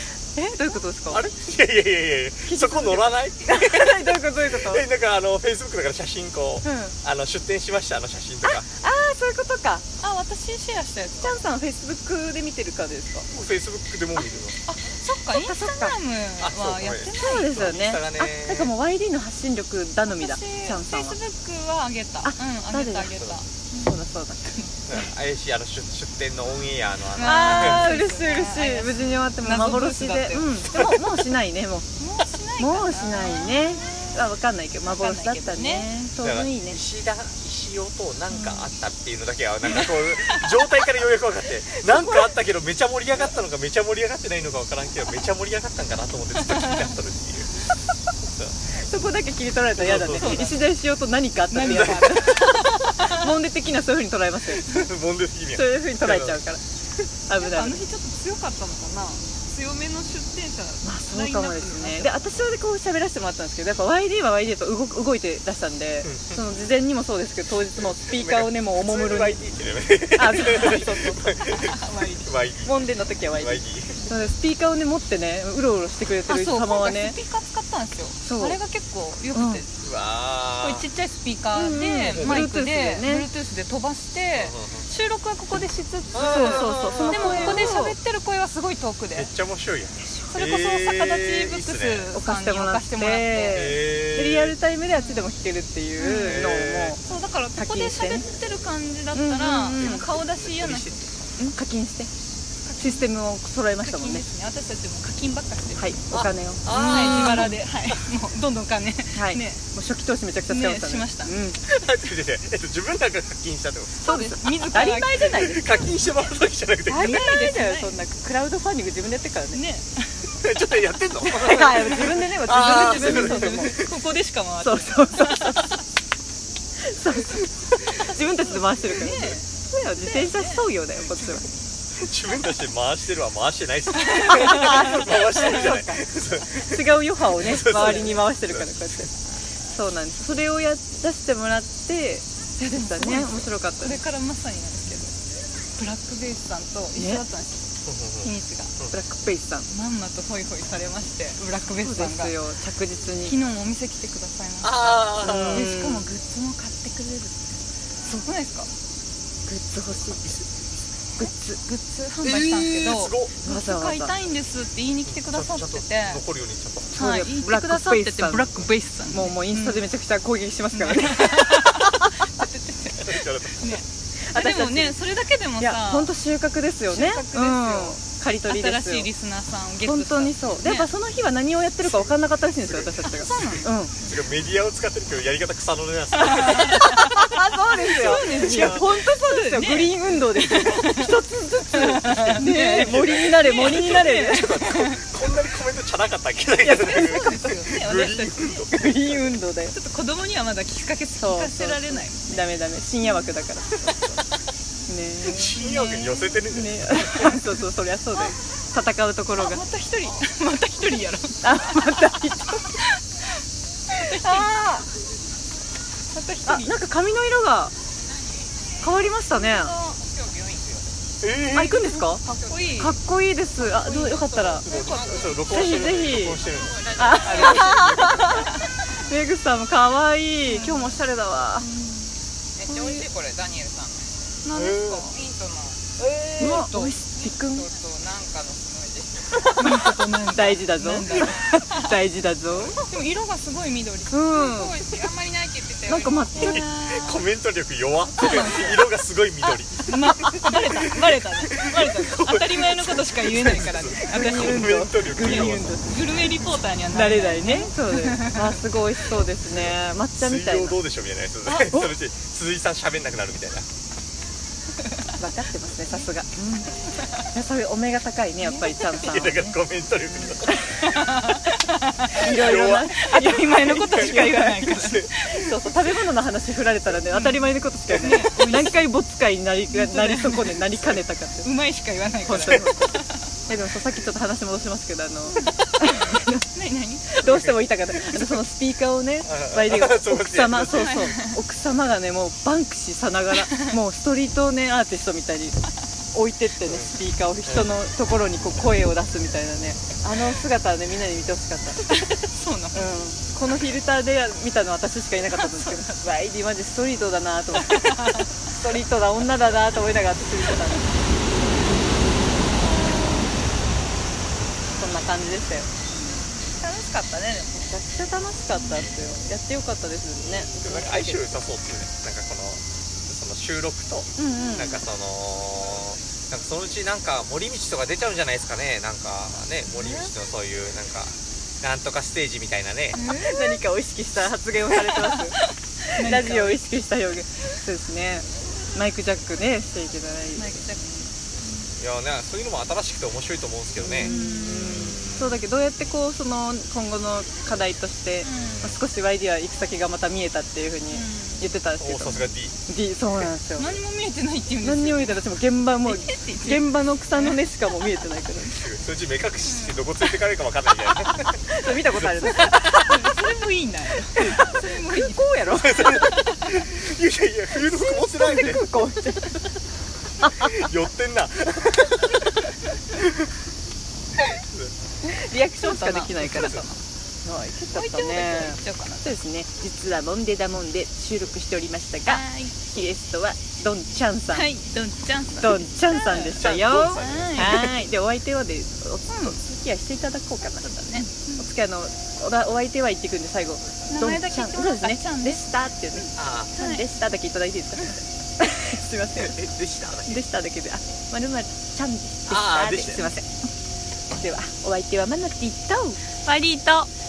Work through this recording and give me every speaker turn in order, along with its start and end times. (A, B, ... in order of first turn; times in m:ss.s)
0:00.3-0:01.2 A
0:01.1-0:08.7 B
0:02.4-0:04.8 A
0:06.6-0:06.9 A
0:08.6-0:09.8 A
0:10.0-0:11.3 C
0:11.2-0:13.3 A
0:13.3-0:14.6 B
0:14.7-0:17.7 C
0:15.3-0:15.9 A
0:16.4-0:18.7 B
0:17.1-0:21.2 A
0:20.1-0:23.9 C
0:22.2-0:23.1 A
0:23.7-0:24.7 A
0:24.9-0:28.0 B
0:27.1-0:30.6 C
0:27.2-0:31.9 A
0:32.0-0:34.2 C
0:32.6-0:36.8 A
0:34.9-0:35.9 C
0:36.2-0:47.5 B
0:39.7-0:40.5 C
0:41.9-0:42.2 A
0:46.4-0:46.9 C
0:48.2-0:48.5 B
0:48.8-0:54.6 A
0:49.8-0:50.6 B
0:50.2-0:50.5 C
0:51.5-0:53.3 C
0:51.6-0:52.5 B
0:54.6-0:56.4 B
0:55.5-0:56.6 A
0:57.3-0:57.8 A
0:57.3-1:02.2 C
1:00.8-1:09.4 A
1:06.0-1:06.4 B
1:08.0-1:14.0 B
1:10.1-1:11.2 A
1:11.5-1:12.3 C
1:12.6-1:17.2 A
1:16.3-1:19.7 C
1:18.2-1:18.6 A
1:19.3-1:19.6 A
1:19.8-1:20.8 B
1:20.6-1:29.3 C
1:21.5-1:23.3 A
1:22.1-1:22.5 B
1:24.3-1:24.9 B
1:26.1-1:27.8 B
1:26.2-1:28.0 A
1:29.1-1:32.1 B
1:30.0-1:30.3 A
1:30.3-1:33.7 C
1:32.1-1:37.0 A
1:33.5-1:34.6 B
1:35.0-1:35.3 C
1:36.0-1:41.2 C
1:36.2-1:37.0 B
1:37.5-1:38.2 A
1:39.1-1:40.0 A
1:39.8-1:41.0 B
1:41.4-1:42.1 A
1:42.6-1:43.0 C
1:42.8-1:44.2 A
1:43.8-1:45.9 C
1:45.8-1:47.6 A
1:46.1-1:48.0 B
1:46.7-1:49.6 C
1:49.1-1:51.6 A
1:50.5-1:51.3 C
1:51.7-1:54.1 B
1:54.0-1:55.8 C
1:54.0-1:55.8 A
1:55.2-1:57.2 B
1:56.9-1:59.6 A
1:56.9-1:57.9 C
1:59.5-2:00.2 C
2:00.4-2:03.9 B
2:01.3-2:03.8 A
2:01.4-2:05.8 C
2:04.6-2:05.7 A
2:06.8-2:11.4 A
2:08.8-2:09.4 C
2:10.0-2:10.6 C
2:12.0-2:18.9 B
2:14.0-2:15.0 C
2:14.3-2:16.0 A
2:16.6-2:19.1 A
2:17.6-2:18.2 C
2:19.7-2:24.0 A
2:22.7-2:25.1 C
2:25.8-2:27.6 C
2:27.0-2:27.2 A
2:27.8-2:28.9 B
2:28.2-2:28.7 C
2:28.9-2:29.7 A
2:29.7-2:32.3 C
2:31.8-2:33.4 A
2:33.2-2:37.5 C
2:34.6-2:35.7 B
2:35.2-2:36.1 A
2:38.0-2:38.7 C
2:39.5-2:40.4 A
2:41.2-2:41.6 A
2:41.7-2:46.2 C
2:42.2-2:43.3 B
2:43.4-2:44.1 A
2:45.0-2:46.9 B
2:46.9-2:52.1 A
2:47.0-2:49.8 C
2:50.7-2:56.1 C
2:53.0-2:53.8 B
2:54.3-2:55.0 A
2:55.6-2:59.1 A
2:56.9-3:00.9 C
2:59.8-3:03.9 A
3:02.7-3:07.4 B
3:03.0-3:03.7 C
3:06.2-3:07.2 C
3:06.5-3:14.6 A
3:07.8-3:15.0 C
3:07.9-3:08.8 B
3:12.8-3:19.0 B
3:16.6-3:17.3 A
3:16.7-3:18.7 C
3:18.7-3:19.7 A
3:19.7-3:22.4 C
3:21.1-3:24.2 A
3:24.9-3:25.6 A
3:25.2-3:27.4 B
3:25.6-3:26.5 C
3:26.5-3:29.6 A
3:29.4-3:33.0 C
3:31.4-3:32.8 A
3:33.9-3:34.8 C
3:34.0-3:34.8 A
3:36.1-3:36.7 C
3:36.4-3:37.7 A
3:38.8-3:39.7 A
3:39.4-3:39.8 C
3:39.8-3:40.9 D
3:41.2-3:42.0 B
3:41.5-3:42.2 A
3:42.2-3:42.7 D
3:42.4-3:43.0 C
3:42.8-3:44.6 A
3:44.1-3:45.4 D
3:44.4-3:48.5 B
3:44.6-3:45.3 C
3:45.4-3:46.4 A
3:46.0-3:47.3 D
3:47.0-3:51.7 A
3:47.3-3:48.4 C
3:50.4-3:51.0 C
3:51.6-3:52.1 C
3:52.6-3:54.1 D
3:52.7-3:53.0 C
3:54.4-3:55.2 C
3:54.5-3:55.0 B
3:55.0-3:59.6 D
3:56.4-3:57.7 A
3:56.4-3:56.9 C
3:59.6-4:01.9 C
3:59.7-4:02.8 A
4:02.8-4:05.1 C
4:04.1-4:04.7 A
4:04.9-4:06.2 D
4:05.9-4:06.7 A
4:06.3-4:07.2 C
4:06.4-4:15.8 B
4:08.2-4:08.8 C
4:09.8-4:18.6 C
4:13.9-4:20.8 A
4:19.6-4:23.7 B
4:21.5-4:21.9 A
4:25.2-4:29.5 A
4:28.4-4:29.4 C
4:29.0-4:30.6 B
4:30.2-4:35.5 C
4:30.6-4:30.9 A
4:32.2-4:41.5 A
4:32.2-4:35.1 B
4:37.1-4:38.8 C
4:39.7-4:43.1 C
4:42.2-4:46.4 A
4:45.3-4:47.2 C
4:47.1-4:55.6 A
4:47.2-4:47.6 B
4:49.2-4:51.0 B
4:50.7-4:51.4 C
4:53.5-4:53.8 C
4:56.1-5:02.0 A
4:56.6-4:56.9 B
4:57.4-4:57.7 B
5:01.8-5:02.9 C
5:02.7-5:10.8 A
5:05.3-5:06.0 C
5:07.6-5:08.3 C
5:12.6-5:13.2 A
5:14.7-5:15.7 A
5:16.4-5:17.6 C
5:17.5-5:21.3 A
5:20.5-5:33.0 B
5:24.2-5:24.8 A
5:33.0-5:33.6 C
5:33.1-5:35.4 A
5:34.7-5:36.6 C
5:35.9-5:40.5 A
5:40.4-5:41.1 C
5:41.8-5:45.2 B
5:43.8-5:53.8 A
5:44.0-5:45.0 C
5:48.2-5:48.8 C
5:50.9-5:51.4 C
5:51.8-5:52.5 B
5:53.6-5:55.2 C
5:54.6-5:58.6 A
5:55.8-5:57.4 C
5:58.5-6:01.3 B
5:59.4-5:59.8 C
6:01.4-6:02.9 A
6:01.9-6:02.3 B
6:02.4-6:06.5 C
6:04.2-6:06.0 A
6:05.8-6:08.6 B
6:07.6-6:09.4 A
6:10.2-6:12.3 B
6:14.3-6:14.7 B
6:15.0-6:16.7 A
6:15.6-6:16.8 C
6:17.2-6:24.5 A
6:17.8-6:19.1 C
6:22.0-6:22.6 C
6:24.3-6:27.8 C
6:25.4-6:30.8 A
6:26.4-6:27.6 B
6:29.1-6:29.4 C
6:30.6-6:31.4 C
6:31.4-6:39.4 A
6:33.9-6:35.4 C
6:36.2-6:36.5 B
6:36.6-6:36.8 C
6:39.2-6:40.2 B
6:40.0-6:43.3 A
6:42.3-6:43.1 B
6:44.1-6:46.0 A
6:46.2-6:46.9 C